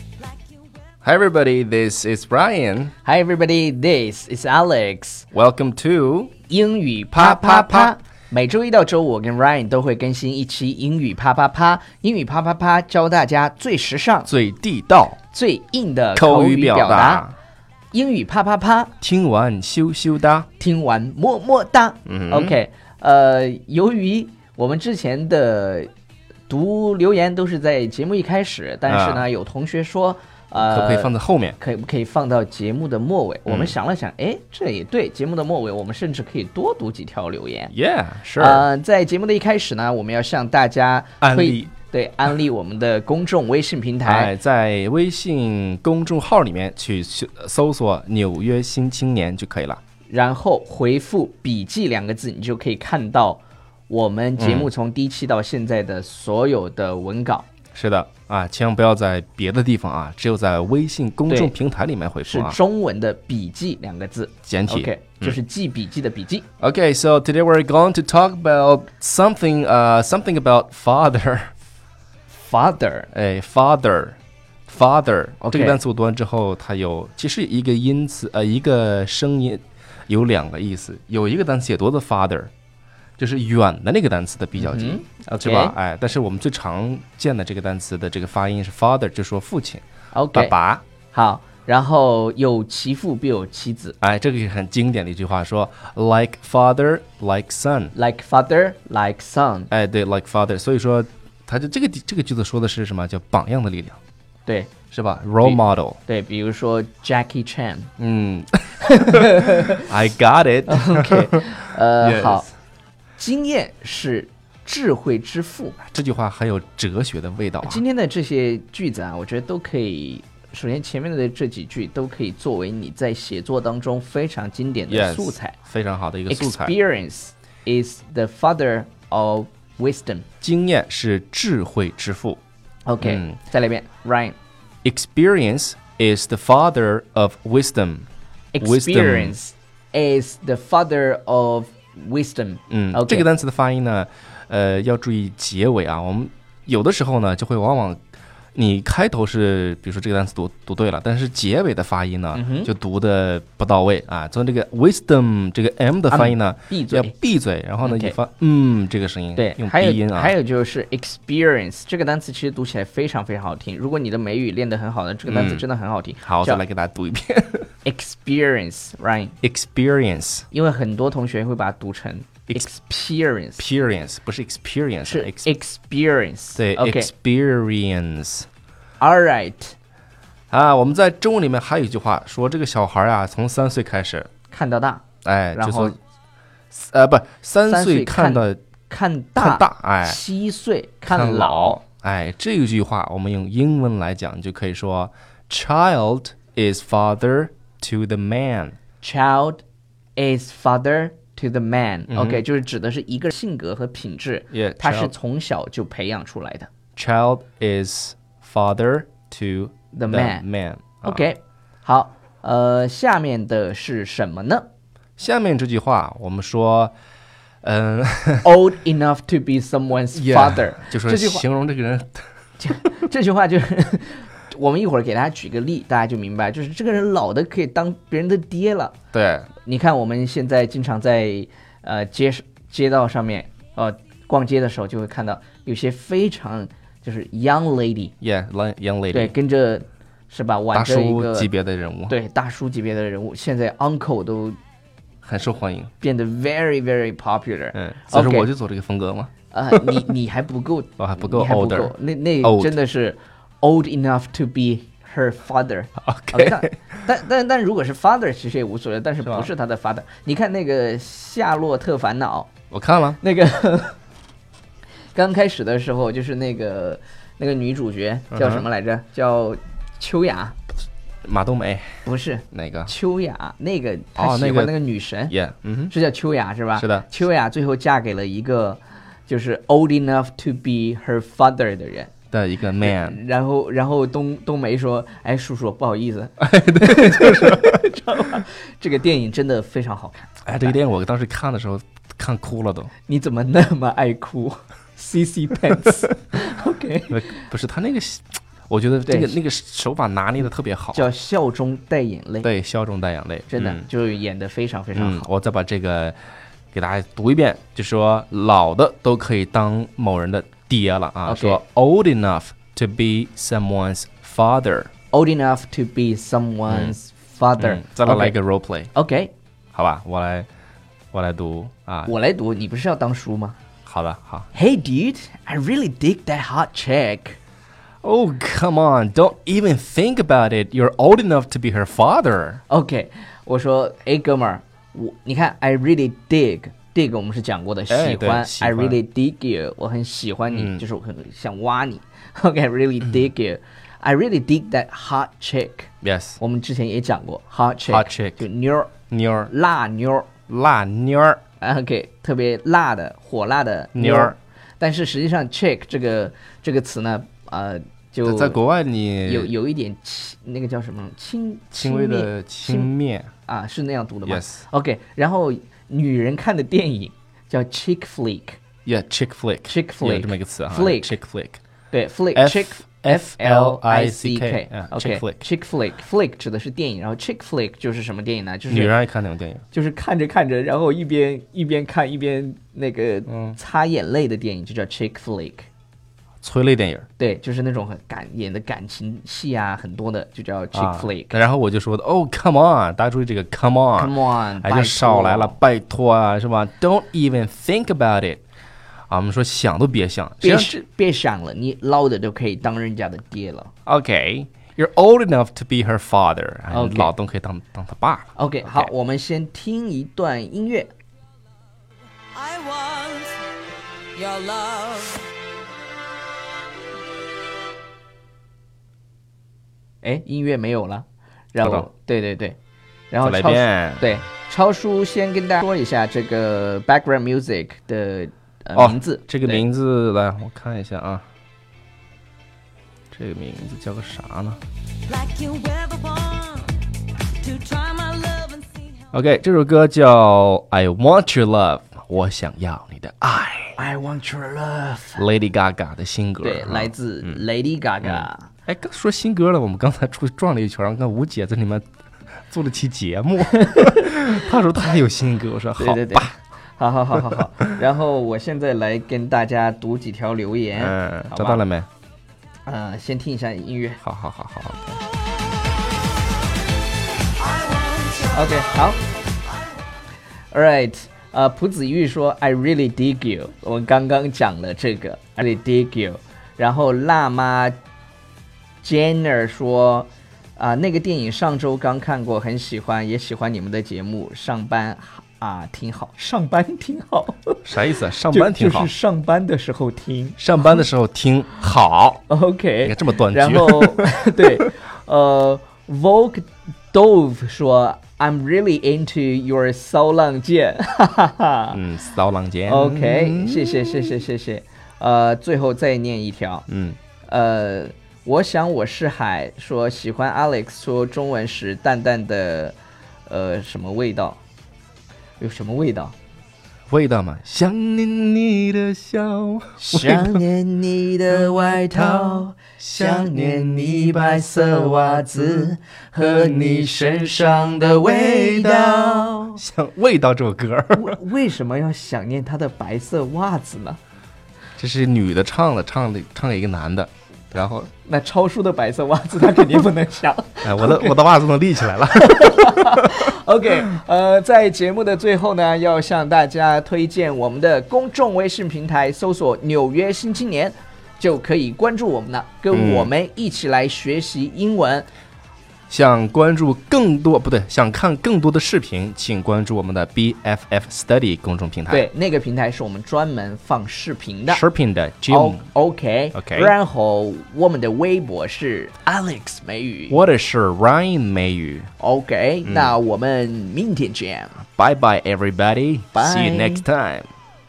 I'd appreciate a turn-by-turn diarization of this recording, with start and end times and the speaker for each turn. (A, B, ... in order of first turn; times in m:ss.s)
0:01.0-0:02.9 A
0:03.0-0:05.3 B
0:05.3-0:06.3 A
0:06.5-0:14.3 B
0:07.1-0:07.9 A
0:14.3-0:15.2 A
0:15.3-0:17.3 B
0:16.2-0:17.4 A
0:17.9-0:18.9 B
0:19.0-0:20.5 A
0:20.6-0:25.9 B
0:22.1-0:22.6 A
0:26.5-0:37.7 B
0:28.9-0:29.3 A
0:30.6-0:31.6 A
0:33.5-0:33.8 A
0:37.7-0:38.7 A
0:38.4-0:44.3 B
0:41.2-0:41.7 A
0:44.0-0:49.8 A
0:50.1-0:57.5 B
0:54.4-0:54.7 A
0:57.7-1:02.6 A
1:01.3-1:01.5 B
1:02.3-1:06.5 B
1:04.5-1:05.4 A
1:06.6-1:11.5 A
1:12.3-1:13.1 B
1:13.1-1:22.5 A
1:15.4-1:15.8 B
1:23.2-1:30.8 A
1:24.6-1:25.8 B
1:30.1-1:30.6 B
1:31.1-1:34.0 B
1:34.0-1:37.9 A
1:37.9-1:39.7 B
1:39.7-1:44.0 A
1:44.5-1:44.7 B
1:44.9-1:46.0 A
1:45.4-1:47.9 B
1:48.0-1:52.5 A
1:48.8-1:49.9 B
1:50.7-1:52.5 B
1:53.2-1:55.8 B
1:55.8-1:57.8 A
1:57.6-2:05.6 B
2:04.9-2:06.7 A
2:06.3-2:10.2 B
2:10.4-2:12.4 A
2:12.9-2:14.4 B
2:13.0-2:13.4 A
2:14.8-2:18.1 A
2:18.5-2:23.3 B
2:18.6-2:19.4 A
2:22.7-2:28.0 A
2:28.6-2:40.3 A
2:32.3-2:32.7 B
2:36.1-2:37.1 B
2:37.8-2:38.2 B
2:39.4-2:46.6 B
2:45.3-2:45.7 A
2:46.2-2:47.7 A
2:47.8-2:49.4 B
2:49.4-2:50.5 A
2:50.5-2:53.6 B
2:53.6-2:55.4 A
2:55.1-2:57.1 B
2:56.6-2:58.5 A
2:59.0-2:59.8 B
3:00.5-3:04.3 A
3:04.5-3:05.0 B
3:05.2-3:06.0 A
3:05.5-3:06.0 B
3:06.7-3:08.6 A
3:07.7-3:11.8 B
3:09.4-3:10.2 A
3:11.1-3:18.8 A
3:19.0-3:19.6 B
3:20.2-3:26.7 B
3:22.1-3:22.4 A
3:24.5-3:25.1 A
3:27.0-3:31.2 A
3:29.9-3:30.4 B
3:31.0-3:34.7 B
3:35.2-3:36.9 A
3:37.6-3:38.5 A
3:38.4-3:41.4 B
3:40.1-3:42.2 A
3:42.6-3:49.0 B
3:49.1-3:49.5 A
3:49.6-3:58.1 B
3:58.2-3:59.3 A
3:59.1-4:01.5 B
4:00.7-4:02.2 A
4:02.1-4:04.6 B
4:05.2-4:05.9 A
4:06.0-4:08.5 B
4:07.7-4:10.0 A
4:09.5-4:22.5 B
4:11.0-4:12.7 A
4:16.0-4:17.0 A
4:19.2-4:19.5 A
4:22.7-4:23.2 A
4:23.2-4:24.0 B
4:25.1-4:30.6 B
4:28.3-4:28.7 A
4:31.2-4:32.9 A
4:32.0-4:35.4 B
4:34.2-4:34.8 A
4:35.3-4:35.9 A
4:35.9-4:42.1 B
4:36.8-4:37.1 A
4:42.3-4:43.2 A
4:42.8-4:50.7 B
4:46.4-4:47.9 A
4:50.4-4:52.9 A
4:53.1-4:57.2 B
4:57.1-5:01.1 A
4:59.1-4:59.4 B
5:00.9-5:02.5 B
5:02.4-5:03.9 A
5:03.5-5:05.3 B
5:04.9-5:06.2 A
5:06.7-5:14.9 A
5:11.3-5:11.6 B
5:15.1-5:18.4 B
5:16.7-5:17.0 A
5:17.6-5:18.9 A
5:18.9-5:19.3 B
5:19.7-5:20.5 A
5:21.1-5:22.1 A
5:22.1-5:23.6 B
5:23.8-5:24.5 A
5:24.5-5:27.4 B
5:28.0-5:32.6 A
5:32.7-5:48.9 B
5:37.9-5:39.0 A
5:40.5-5:40.8 A
5:46.0-5:46.4 A
5:47.9-5:48.4 A
5:49.1-5:49.5 A
5:49.5-5:50.3 B
5:50.5-5:51.4 A
5:51.6-5:58.6 B
5:53.9-5:54.4 A
5:58.2-5:59.5 A
5:59.3-6:02.9 B
6:01.8-6:03.3 A
6:03.5-6:08.6 B
6:04.3-6:04.6 A
6:08.9-6:11.6 A
6:09.7-6:11.1 B
6:11.9-6:18.9 B
6:12.4-6:15.4 A
6:18.7-6:19.6 A
6:19.7-6:25.7 B
6:23.3-6:23.6 A
6:26.4-6:27.1 A
6:27.2-6:31.4 B
6:30.7-6:38.4 A
6:34.0-6:35.6 B
6:39.1-6:40.7 A
6:40.4-6:43.7 B
6:43.9-6:48.9 A
6:46.7-6:47.1 B
6:48.4-6:50.9 B
6:52.3-6:53.4 C
6:54.2-6:55.3 C
7:00.0-7:02.6 B
7:01.6-7:01.9 A
7:03.1-7:09.6 B
7:03.2-7:04.1 A
7:08.8-7:11.2 A
7:13.1-7:14.6 A
7:15.1-7:16.8 C
7:17.4-7:18.9 C
7:19.1-7:23.8 A
7:23.8-7:25.2 B
7:25.2-7:27.4 A
7:26.4-7:28.5 B
7:28.0-7:31.8 A
7:32.5-7:36.3 A
7:33.6-7:34.3 B
7:35.8-7:41.6 B
7:37.1-7:37.7 A
7:40.7-7:41.9 A
7:42.7-7:44.0 B
7:44.0-7:45.0 A
7:47.5-7:48.3 C
7:48.2-7:49.0 B
7:50.5-7:57.8 B
7:58.8-8:10.8 B
8:07.6-8:08.9 A
8:10.4-8:12.2 A
8:12.3-8:21.8 B
8:12.8-8:14.7 A
8:21.7-8:24.2 A
8:22.7-8:26.7 B
8:26.7-8:27.0 A
8:27.3-8:34.4 B
8:35.4-8:36.1 B
8:36.9-8:40.4 A
8:39.8-8:49.6 B
8:41.3-8:51.2 A
8:50.9-8:54.0 B
8:54.8-8:57.9 A
8:58.0-9:01.3 B
9:00.6-9:03.3 A
9:01.9-9:15.1 B
9:12.7-9:13.1 A
9:15.9-9:22.1 A
9:21.9-9:24.6 B
9:24.5-9:25.6 A
9:25.3-9:30.2 B
9:26.4-9:26.7 A
9:30.1-9:31.9 A
9:32.0-9:34.6 B
9:32.6-9:33.0 A
9:34.8-9:37.3 A
9:36.1-9:36.9 B